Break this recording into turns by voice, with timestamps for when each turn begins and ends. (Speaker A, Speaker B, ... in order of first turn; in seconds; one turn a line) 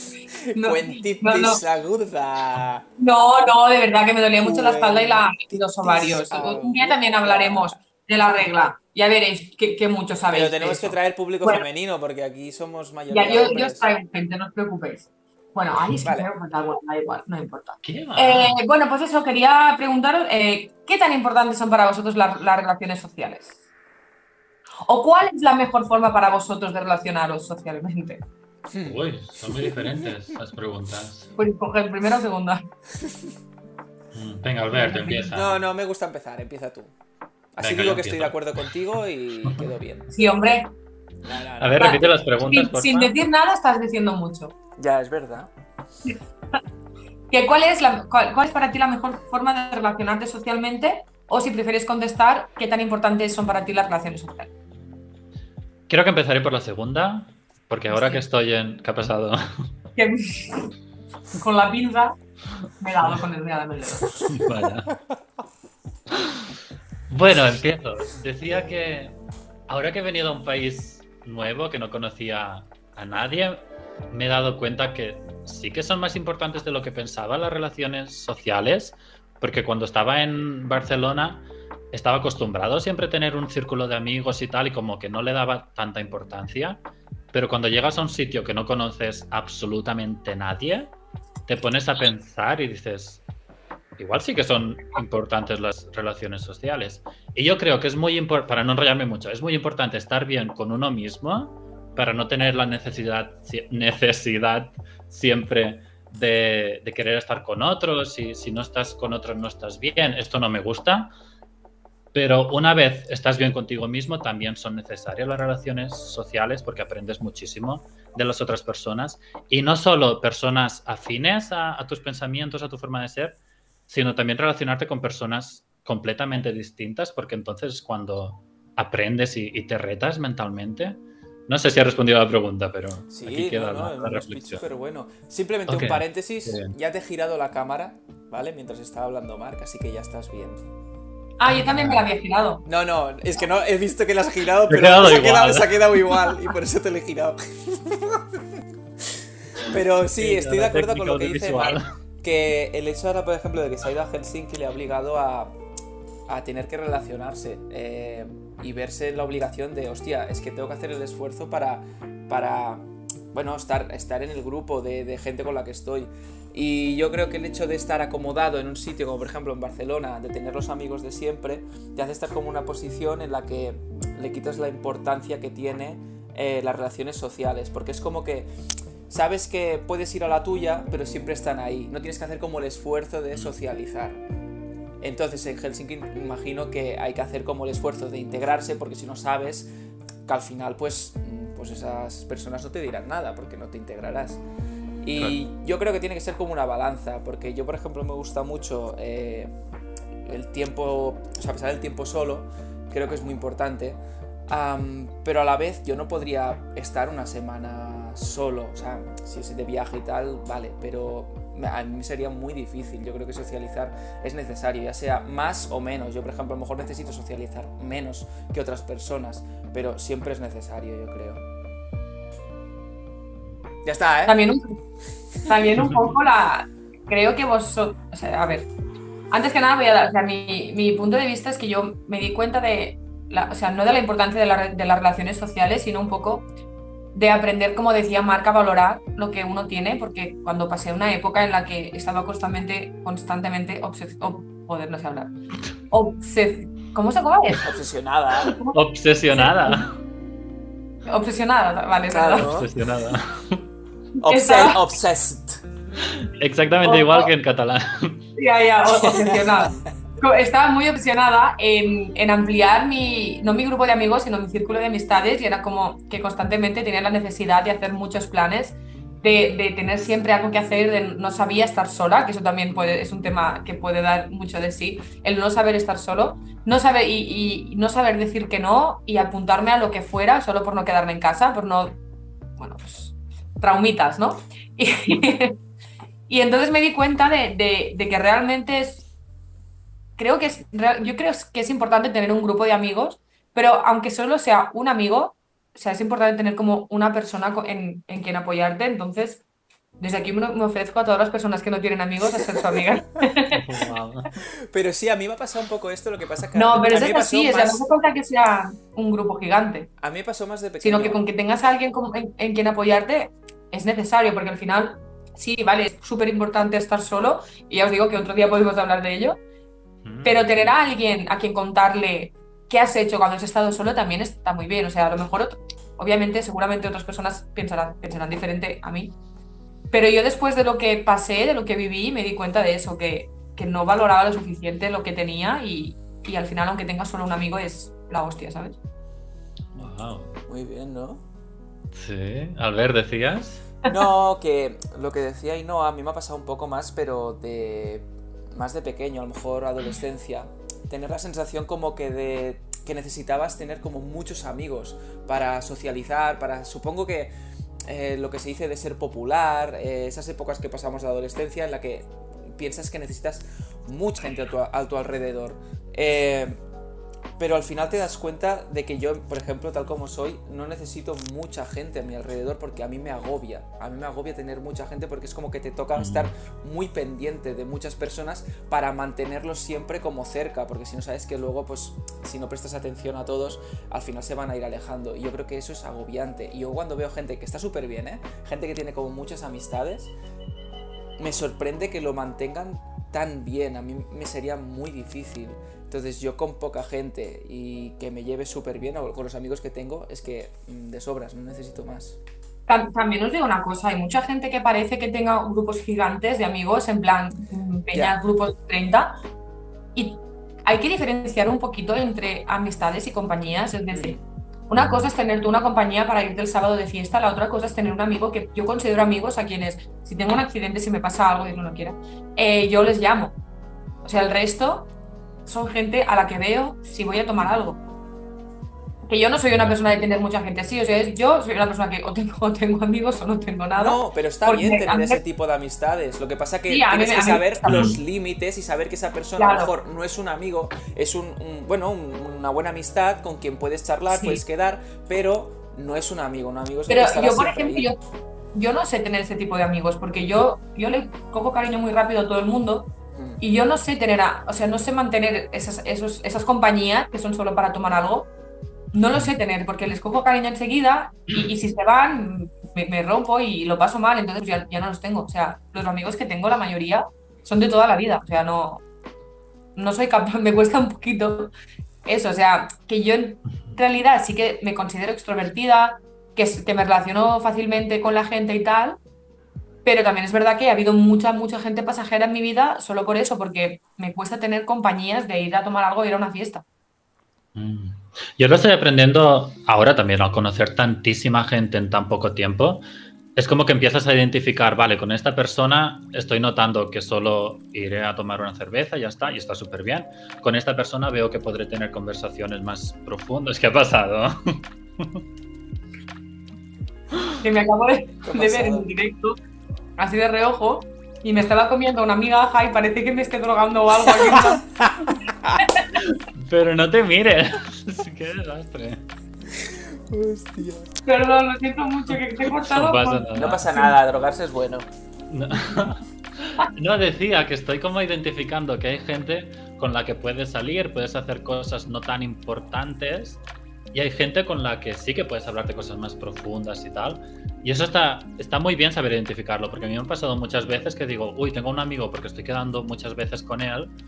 Speaker A: 0.3-2.9
Speaker B: 0.5-1.6
Speaker B: 3.0-11.6
Speaker A: 4.4-7.8
Speaker A: 10.3-13.9
Speaker B: 13.1-23.5
Speaker A: 15.9-16.3
Speaker C: 17.8-18.6
Speaker B: 24.9-28.2
Speaker A: 28.7-29.8
Speaker C: 28.8-31.3
Speaker B: 31.4-32.6
Speaker C: 34.1-35.6
Speaker B: 34.7-35.2
Speaker A: 35.2-36.9
Speaker A: 37.5-40.1
Speaker C: 37.6-38.5
Speaker B: 40.1-40.7
Speaker A: 41.2-42.1
Speaker C: 41.6-43.1
Speaker B: 41.8-44.5
Speaker A: 44.8-45.5
Speaker B: 47.3-54.5
Speaker C: 55.9-59.7
Speaker B: 57.9-58.2
Speaker B: 60.0-60.7
Speaker B: 61.4-62.2
Speaker B: 62.8-64.1
Speaker C: 64.1-65.0
Speaker C: 66.1-66.4
Speaker C: 67.1-69.2
Speaker C: 69.7-86.8
Speaker C: 87.3-90.9
Speaker C: 91.5-93.2
Speaker C: 94.0-111.1
Speaker C: 112.1-123.4
Speaker C: 123.9-134.6
Speaker A: 133.1-140.6
Speaker C: 135.7-136.8
Speaker B: 141.4-142.6
Speaker C: 141.5-142.1
Speaker A: 142.7-148.4
Speaker C: 144.7-146.2
Speaker A: 149.6-155.6
Speaker C: 150.2-151.9
Speaker A: 156.3-178.5
Speaker A: 179.1-184.2
Speaker A: 185.0-189.7
Speaker A: 190.3-194.4
Speaker A: 195.0-199.5
Speaker A: 200.2-204.0
Speaker A: 204.5-221.4
Speaker A: 223.8-224.4
Speaker B: 224.3-224.8
Speaker B: 225.4-228.7
Speaker B: 229.3-236.4
Speaker B: 237.1-245.3
Speaker B: 245.9-247.7
Speaker A: 247.6-248.6
Speaker C: 248.5-250.0
Speaker B: 248.5-249.8
Speaker B: 251.1-252.5
Speaker A: 252.1-252.7
Speaker C: 252.4-253.6
Speaker B: 254.2-254.8
Speaker A: 254.2-255.6
Speaker C: 256.2-258.3
Speaker B: 256.8-257.3
Speaker B: 258.4-282.0
Speaker A: 258.9-259.6
Speaker B: 282.6-285.6
Speaker B: 286.3-289.0
Speaker B: 290.2-299.4
Speaker B: 300.0-303.6
Speaker C: 303.5-304.3
Speaker A: 304.7-307.9
Speaker B: 306.6-309.9
Speaker A: 310.0-311.2
Speaker B: 310.8-319.4
Speaker C: 320.0-320.7
Speaker B: 320.2-329.1
Speaker B: 329.9-338.8
Speaker C: 339.8-340.4
Speaker A: 340.5-341.2
Speaker C: 341.9-343.7
Speaker A: 343.9-357.3
Speaker A: 357.9-366.6
Speaker A: 367.4-390.1
Speaker C: 376.0-376.3
Speaker A: 391.2-402.2
Speaker B: 402.7-409.1
Speaker A: 407.9-408.2
Speaker B: 409.9-414.2
Speaker A: 413.9-414.2
Speaker B: 414.7-423.4
Speaker C: 414.8-415.1
Speaker B: 424.0-424.9
Speaker B: 425.5-427.8
Speaker B: 429.1-435.2
Speaker C: 429.5-429.8
Speaker A: 433.8-447.9
Speaker B: 436.7-437.9
Speaker C: 437.7-438.0
Speaker B: 439.4-439.7
Speaker B: 444.1-444.4
Speaker B: 446.9-448.0
Speaker B: 448.5-458.3
Speaker A: 453.1-453.4
Speaker B: 458.9-468.8
Speaker B: 469.8-471.5
Speaker B: 472.1-479.0
Speaker B: 479.9-486.6
Speaker C: 487.6-492.8
Speaker C: 493.4-505.2
Speaker B: 507.4-509.4
Speaker A: 508.2-508.9
Speaker B: 510.0-514.7
Speaker A: 514.3-515.6
Speaker B: 515.6-515.9
Speaker C: 516.0-519.0
Speaker A: 519.5-520.9
Speaker B: 521.1-523.9
Speaker C: 522.4-523.7
Speaker A: 523.3-524.9
Speaker C: 525.3-533.4
Speaker C: 533.9-543.9